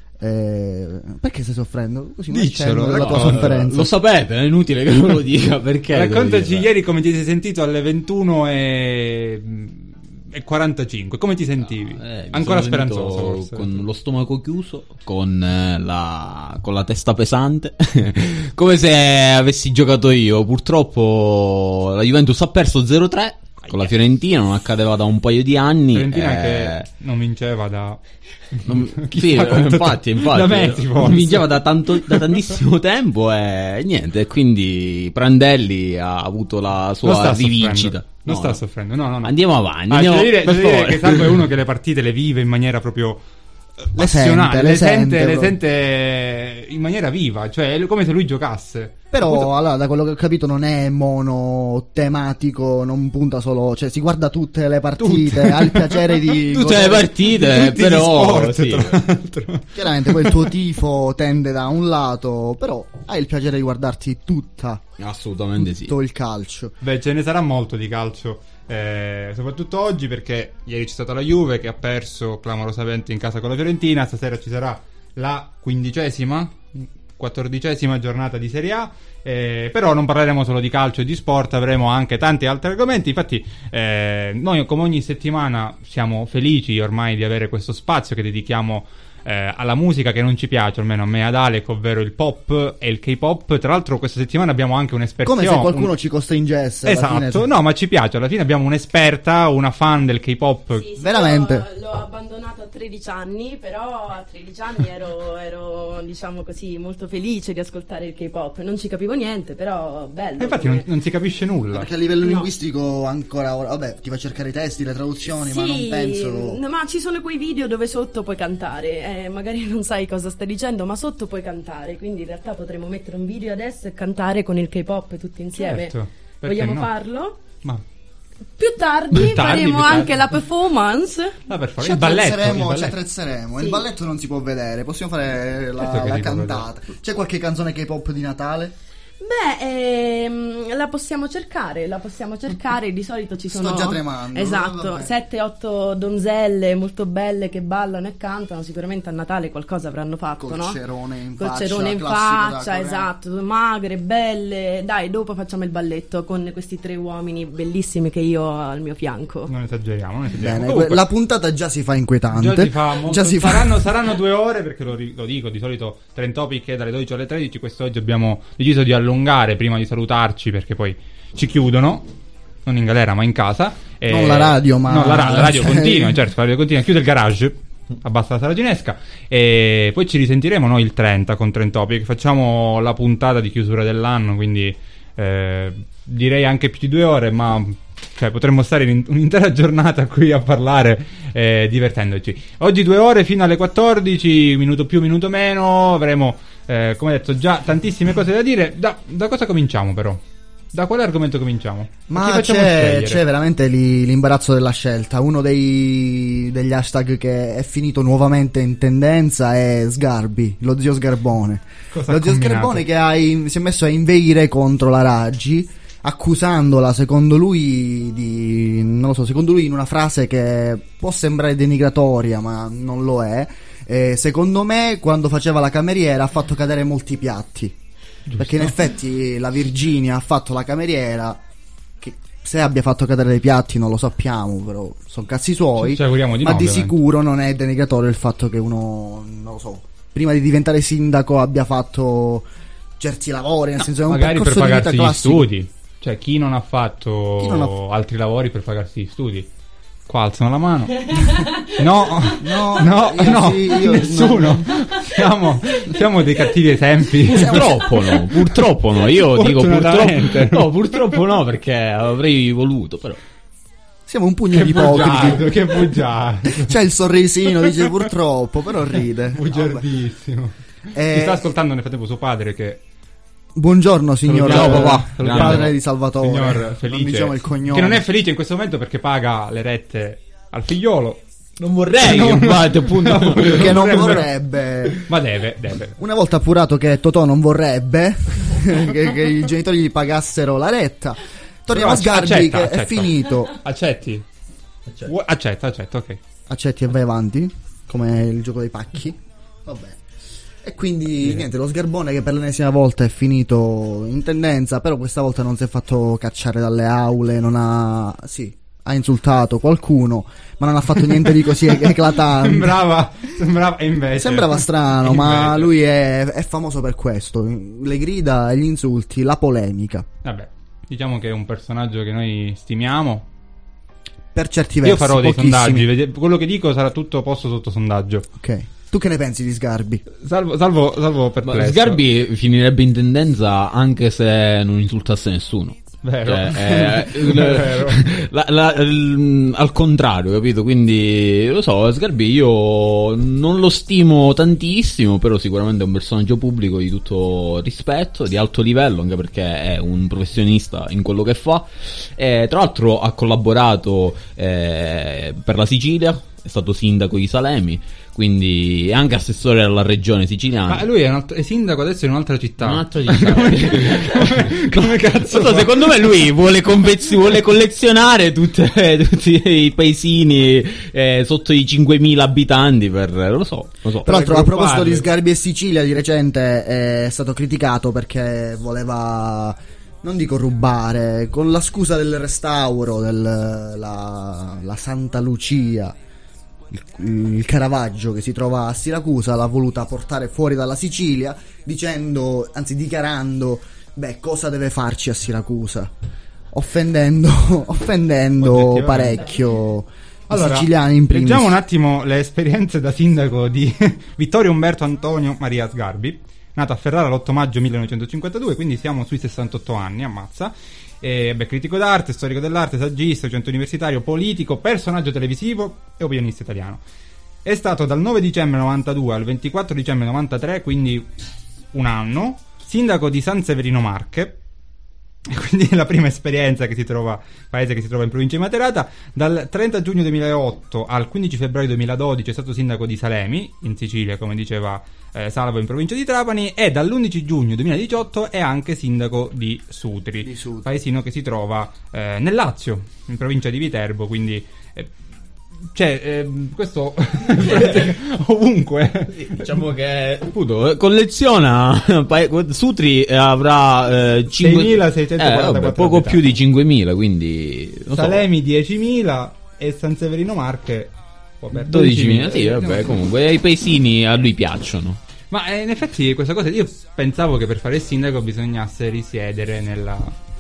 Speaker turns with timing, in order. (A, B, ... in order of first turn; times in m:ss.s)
0:00.2-0:03.9 A
0:02.3-0:03.6 B
0:02.9-0:06.7 C
0:05.9-0:13.8 B
0:11.8-0:26.9 C
0:23.6-0:23.9 B
0:25.9-0:28.0 B
0:28.5-0:32.4 B
0:28.7-0:38.6 C
0:37.0-0:39.4 B
0:39.2-0:41.4 C
0:39.9-0:43.2 B
0:43.8-0:49.5 B
0:44.0-0:45.6 A
0:49.1-0:57.3 A
0:55.0-0:56.4 B
0:56.5-0:59.0 C
0:57.4-1:00.5 B
0:59.8-1:04.8 A
1:05.0-1:06.0 C
1:05.6-1:06.8 A
1:06.8-1:35.9 B
1:35.2-1:37.5 A
1:36.8-1:40.8 B
1:40.7-1:50.9 D
1:41.0-1:41.6 A
1:50.4-1:51.9 B
1:51.7-1:56.6 A
1:52.2-1:52.5 D
1:55.3-2:07.4 D
2:05.5-2:06.9 B
2:08.6-2:11.4 D
2:09.1-2:10.3 B
2:11.5-2:13.0 B
2:11.8-2:18.8 A
2:13.6-2:13.8 D
2:15.8-2:16.7 B
2:19.2-2:30.8 D
2:23.5-2:25.1 A
2:30.4-2:33.1 A
2:31.4-2:39.5 D
2:39.5-2:41.0 B
2:40.4-2:43.9 A
2:42.3-2:52.1 B
2:52.6-3:23.2 B
2:54.1-2:56.2 A
3:22.1-3:47.8 A
3:31.9-3:32.8 B
3:48.3-3:48.8 B
3:48.4-3:51.4 A
3:52.0-4:02.4 A
3:55.8-3:57.0 B
4:03.0-4:05.5 A
4:03.9-4:09.5 B
4:07.4-4:07.8 A
4:10.1-4:21.2 B
4:11.1-4:11.8 D
4:12.4-4:14.8 A
4:17.2-4:23.2 C
4:24.1-4:26.0 A
4:24.5-4:26.8 B
4:24.8-4:25.4 C
4:26.5-4:29.8 A
4:27.5-4:28.0 B
4:29.3-4:30.6 B
4:30.9-4:31.6 A
4:31.1-4:32.8 B
4:33.6-4:38.1 A
4:34.3-4:35.7 C
4:34.3-4:41.2 B
4:41.6-4:44.0 C
4:42.0-4:44.3 B
4:43.4-4:45.1 A
4:44.9-4:46.0 B
4:46.0-4:53.6 A
4:51.7-4:54.2 B
4:55.0-4:56.2 B
4:56.5-5:00.0 A
5:00.6-5:12.9 A
5:11.1-5:15.7 B
5:14.1-5:20.1 A
5:20.2-5:23.3 B
5:24.3-5:25.9 A
5:24.8-5:28.3 B
5:28.4-5:30.0 A
5:30.2-5:32.0 B
5:31.4-6:00.9 C
5:36.0-5:38.0 B
6:00.7-6:06.0 B
6:02.6-6:14.1 C
6:14.0-6:15.1 B
6:14.0-6:25.9 A
6:26.7-6:35.9 A
6:36.5-6:41.6 A
6:38.4-6:39.4 B
6:40.3-6:56.8 B
6:57.4-7:01.1 B
7:01.7-7:04.4 B
7:05.3-7:24.9 B
7:20.2-7:20.7 A
7:25.7-7:29.6 B
7:27.4-7:27.9 C
7:29.2-7:38.3 C
7:34.4-7:36.3 B
7:37.9-7:42.9 B
7:41.5-7:45.0 C
7:45.3-7:50.2 B